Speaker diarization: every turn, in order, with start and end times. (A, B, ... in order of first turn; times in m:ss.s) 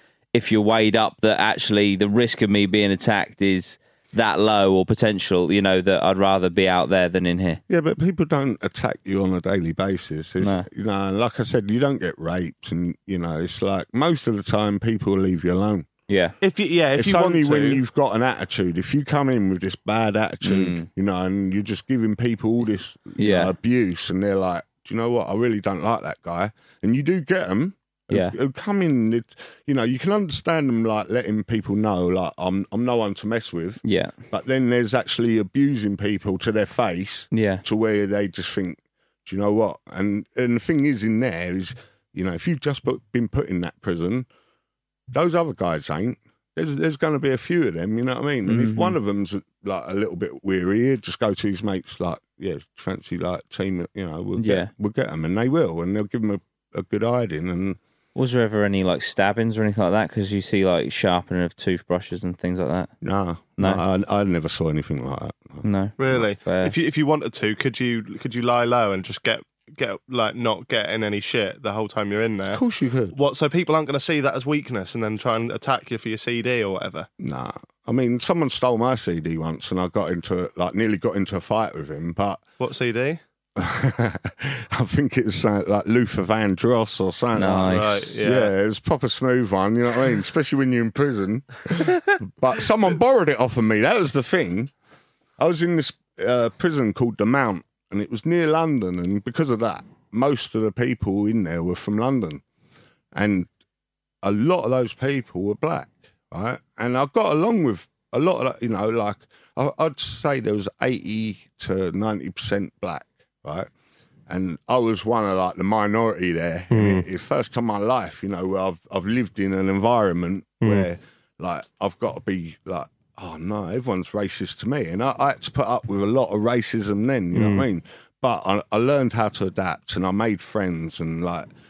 0:00.3-0:07.6 A
0:07.7-0:15.9 B
0:10.4-0:10.7 A
0:16.1-0:16.4 A
0:16.4-0:17.8 C
0:17.0-0:44.3 B
0:20.4-0:20.9 A
0:23.2-0:23.5 A
0:28.1-0:28.4 A
0:33.8-0:34.1 A
0:37.3-0:37.6 A
0:45.1-0:57.8 B
0:48.5-0:49.0 A
0:54.4-0:54.7 A
0:58.2-1:02.9 A
1:03.0-1:06.2 B
1:05.6-1:06.8 A
1:06.0-1:12.6 C
1:12.5-1:13.2 B
1:13.1-1:17.1 C
1:17.2-1:22.4 B
1:22.6-1:23.2 C
1:23.6-1:34.7 B
1:27.3-1:28.1 A
1:27.7-1:28.5 C
1:35.4-1:42.4 B
1:43.1-1:43.5 B
1:44.2-1:53.7 B
1:54.3-2:11.5 B
1:56.7-1:57.0 C
2:00.6-2:00.9 C
2:07.3-2:07.7 C